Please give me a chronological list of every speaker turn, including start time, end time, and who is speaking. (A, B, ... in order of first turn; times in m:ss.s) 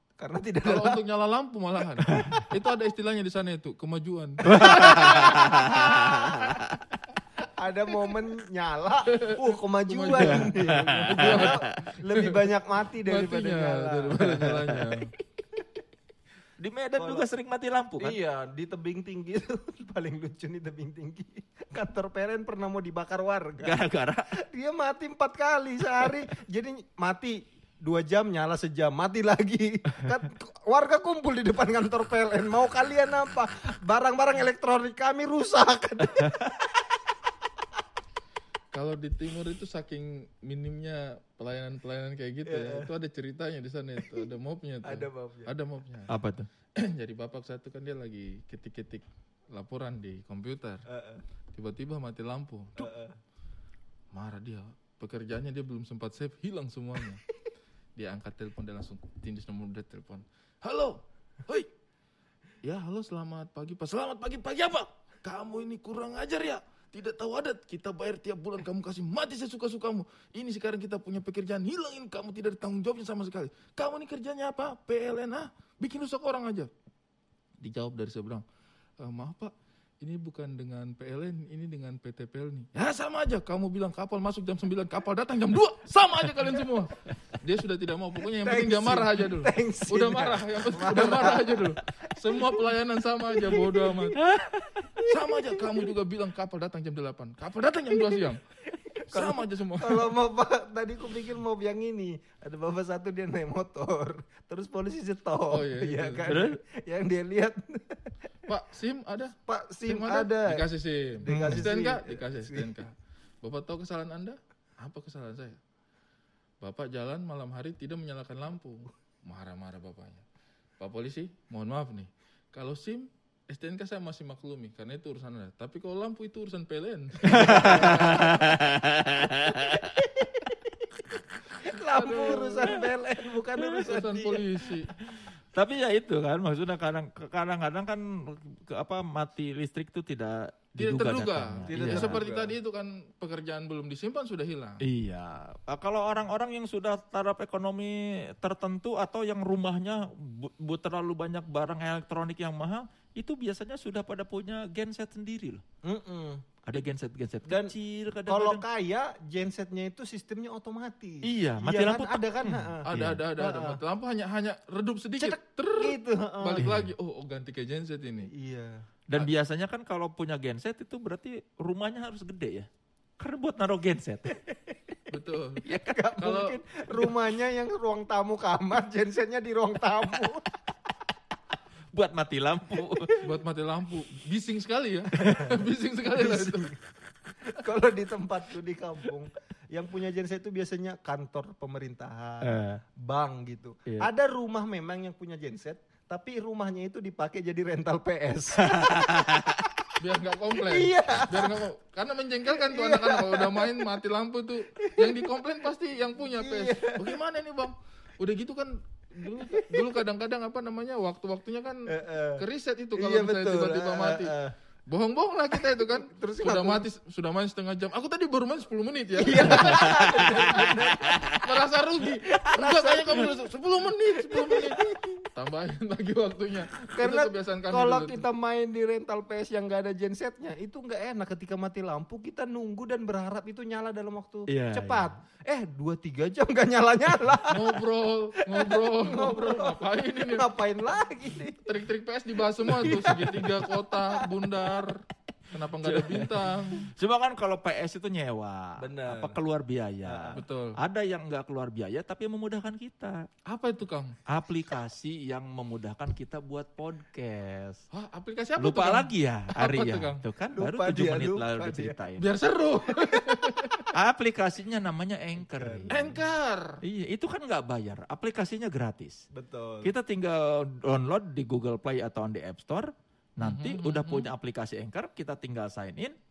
0:00.2-0:01.0 A
0:00.6-0:05.3 B
0:02.1-0:02.4 C
0:04.4-0:06.6 A
0:04.5-0:06.8 C
0:07.4-0:14.6 A
0:09.1-0:12.5 B
0:10.4-0:11.8 C
0:13.0-0:15.1 B
0:14.7-0:15.0 C
0:16.6-0:18.2 C
0:17.0-0:17.2 A
0:18.0-0:23.8 A
0:23.6-0:24.3 C
0:24.3-0:36.5 A
0:38.7-0:46.1 B
0:42.4-0:42.9 A
0:44.8-0:45.5 A
0:46.1-0:46.5 C
0:46.8-0:50.8 B
0:50.9-0:51.2 A
0:51.5-0:52.9 B
0:52.8-0:53.2 A
0:54.1-0:57.2 B
0:58.0-1:01.7 B
1:02.6-1:16.7 B
1:17.6-1:18.4 B
1:19.0-1:34.2 B
1:28.4-1:31.7 A
1:34.1-1:35.2 C
1:35.0-1:38.4 B
1:38.8-1:48.1 A
1:39.1-1:40.1 B
1:45.5-1:46.3 B
1:46.3-1:46.6 C
1:48.5-1:55.6 B
1:49.5-1:50.7 A
1:51.2-1:52.8 A
1:51.3-1:51.7 C
1:56.6-2:00.2 B
2:00.8-2:08.4 B
2:07.3-2:09.9 C
2:07.6-2:08.2 A
2:11.5-2:14.4 A
2:11.9-2:12.8 B
2:13.7-2:14.9 B
2:15.1-2:22.2 C
2:20.8-2:24.8 B
2:21.7-2:22.5 A
2:24.8-2:35.6 C
2:35.8-2:36.4 A
2:36.6-2:38.6 C
2:37.5-2:37.7 A
2:38.3-2:42.9 A
2:41.2-2:43.2 C
2:42.8-2:48.3 B
2:43.4-2:43.8 A
2:45.2-2:46.6 A
2:46.6-2:46.9 C
2:48.3-2:48.8 A
2:49.1-2:52.7 C
2:53.2-2:54.3 C
2:54.5-2:54.9 A
2:55.1-2:55.6 B
2:55.6-2:56.1 C
2:55.8-3:00.5 A
2:56.2-2:56.6 B
3:01.9-3:03.1 C
3:03.2-3:06.6 B
3:06.1-3:06.8 A
3:07.5-3:19.2 A
3:12.4-3:12.8 C
3:18.8-3:19.6 C
3:20.0-3:34.3 B
3:20.6-3:21.6 A
3:22.6-3:23.8 A
3:24.8-3:25.4 A
3:26.3-3:27.2 A
3:29.3-3:30.0 A
3:31.9-3:32.4 A
3:33.0-3:34.5 A
3:34.9-3:40.7 B
3:35.8-3:36.8 A
3:39.1-3:41.3 A
3:39.6-3:41.4 C
3:41.4-3:48.2 B
3:42.4-3:43.4 A
3:44.3-3:45.1 A
3:46.8-3:57.7 A
3:54.5-3:55.1 C
3:57.5-4:00.5 B
3:58.5-4:01.6 A
4:01.6-4:06.9 B
4:02.6-4:04.2 A
4:05.8-4:13.2 C
4:08.8-4:09.4 A
4:10.0-4:10.4 A
4:10.3-4:10.8 B
4:13.5-4:14.2 B
4:14.3-4:17.8 C
4:17.9-4:20.2 B
4:18.6-4:22.2 C
4:20.5-4:22.0 A
4:22.2-4:23.9 B
4:23.9-4:26.2 C
4:25.4-4:26.1 A
4:25.9-4:26.8 B
4:26.8-4:29.2 C
4:29.3-4:29.9 A
4:29.8-4:36.1 C
4:33.4-4:34.3 B